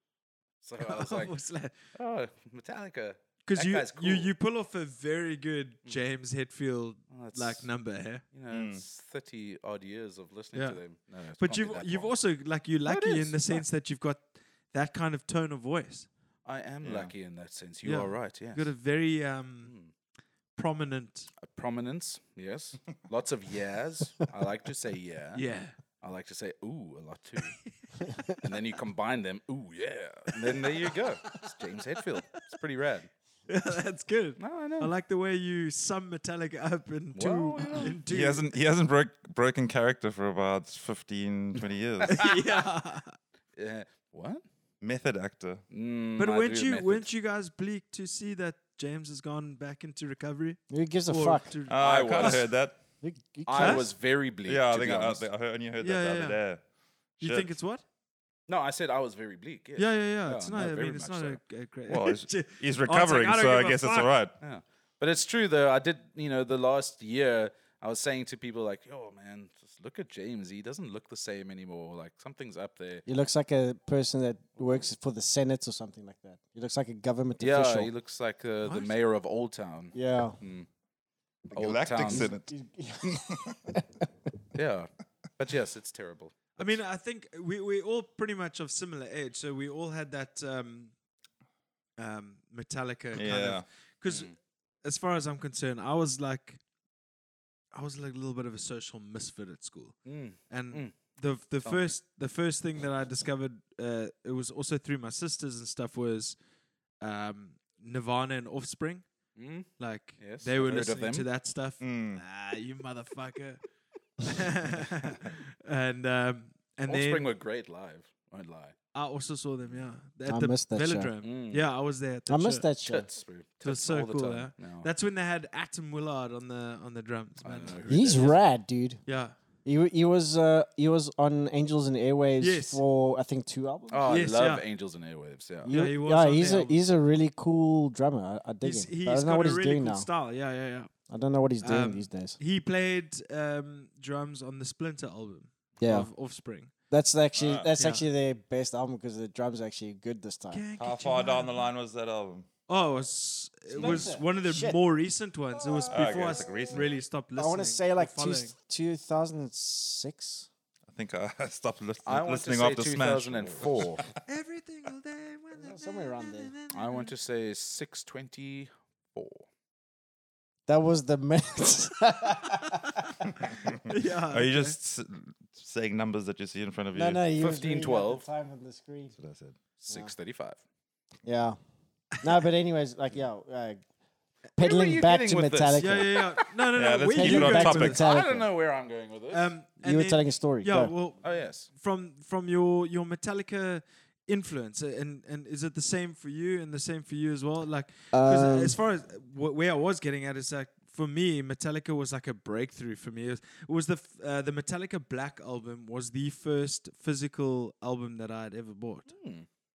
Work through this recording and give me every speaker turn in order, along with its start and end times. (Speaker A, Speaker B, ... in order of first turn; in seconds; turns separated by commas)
Speaker A: 0.6-1.4, Speaker B: 0.8-1.7, Speaker A: 1.9-4.3, Speaker B: 3.5-8.2, Speaker A: 7.1-7.7, Speaker A: 8.3-12.1, Speaker C: 8.5-8.8, Speaker B: 10.5-10.8, Speaker B: 11.4-16.1, Speaker A: 12.8-13.6, Speaker A: 16.4-18.7, Speaker C: 16.8-17.1, Speaker B: 17.8-19.7, Speaker A: 19.6-19.9, Speaker B: 20.5-21.3, Speaker A: 21.4-25.4, Speaker B: 25.3-25.8, Speaker A: 26.0-27.5, Speaker A: 28.3-33.1, Speaker B: 33.5-38.5, Speaker A: 34.4-34.9, Speaker A: 37.1-38.0, Speaker C: 38.0-42.3, Speaker A: 42.0-42.3, Speaker B: 42.1-43.2, Speaker A: 43.5-44.4, Speaker C: 44.8-45.6, Speaker A: 45.7-47.1, Speaker B: 46.2-52.4, Speaker D: 50.7-51.5, Speaker C: 51.7-52.8, Speaker A: 51.8-52.5, Speaker D: 53.0-53.9, Speaker A: 53.5-55.2, Speaker B: 53.6-53.8, Speaker C: 54.4-56.6, Speaker B: 55.8-56.4, Speaker C: 57.2-57.5, Speaker B: 57.2-57.8, Speaker A: 58.5-61.4, Speaker B: 59.8-64.1, Speaker C: 61.9-64.3, Speaker A: 64.4-73.0, Speaker D: 73.1-77.9, Speaker A: 77.4-80.7, Speaker B: 78.6-78.9, Speaker D: 79.9-80.4, Speaker A: 81.5-82.3, Speaker C: 81.5-82.5, Speaker D: 82.0-83.8, Speaker C: 83.0-83.6, Speaker A: 84.5-86.8, Speaker B: 86.6-90.9, Speaker B: 92.0-96.6, Speaker C: 93.1-93.6, Speaker A: 94.1-94.3, Speaker B: 97.7-100.0, Speaker A: 100.0-100.9, Speaker B: 100.5-106.4, Speaker A: 101.6-101.9, Speaker B: 107.0-109.0, Speaker A: 109.3-111.3, Speaker B: 109.8-113.6, Speaker C: 111.8-112.2, Speaker B: 114.2-117.3, Speaker A: 116.9-118.7, Speaker B: 118.9-122.7, Speaker D: 120.3-121.1, Speaker A: 121.2-121.6, Speaker D: 122.3-123.1, Speaker A: 122.8-124.9, Speaker B: 123.6-128.3, Speaker A: 127.4-128.4, Speaker D: 127.9-129.0, Speaker B: 129.1-129.3, Speaker D: 129.6-134.2, Speaker B: 132.4-132.8, Speaker A: 133.9-135.7, Speaker B: 134.1-134.6, Speaker D: 135.6-140.1, Speaker B: 135.7-136.8, Speaker B: 138.6-140.9, Speaker D: 141.1-142.4, Speaker B: 141.6-146.7, Speaker D: 145.8-146.1, Speaker D: 146.9-150.6, Speaker C: 147.4-147.7, Speaker B: 147.8-148.0, Speaker B: 150.5-151.7, Speaker C: 150.8-152.5, Speaker B: 152.7-158.5, Speaker D: 153.7-154.8, Speaker A: 153.8-154.1, Speaker C: 155.9-156.8, Speaker D: 157.4-160.5, Speaker C: 160.9-164.1, Speaker A: 162.1-164.0, Speaker B: 164.2-167.1, Speaker D: 165.5-166.5, Speaker A: 166.7-169.4, Speaker D: 170.7-173.5, Speaker C: 173.6-177.3, Speaker B: 173.9-174.8, Speaker D: 176.9-179.2, Speaker A: 177.4-178.2, Speaker C: 179.2-179.6, Speaker A: 179.8-180.6, Speaker D: 181.2-181.6, Speaker D: 182.2-183.8, Speaker D: 184.6-186.1, Speaker A: 184.6-186.4, Speaker B: 185.8-188.0, Speaker C: 186.7-188.0, Speaker D: 187.1-188.5, Speaker A: 187.7-189.5, Speaker B: 189.3-209.1, Speaker D: 189.8-190.9, Speaker A: 191.2-191.7, Speaker D: 198.1-198.8, Speaker A: 209.1-209.4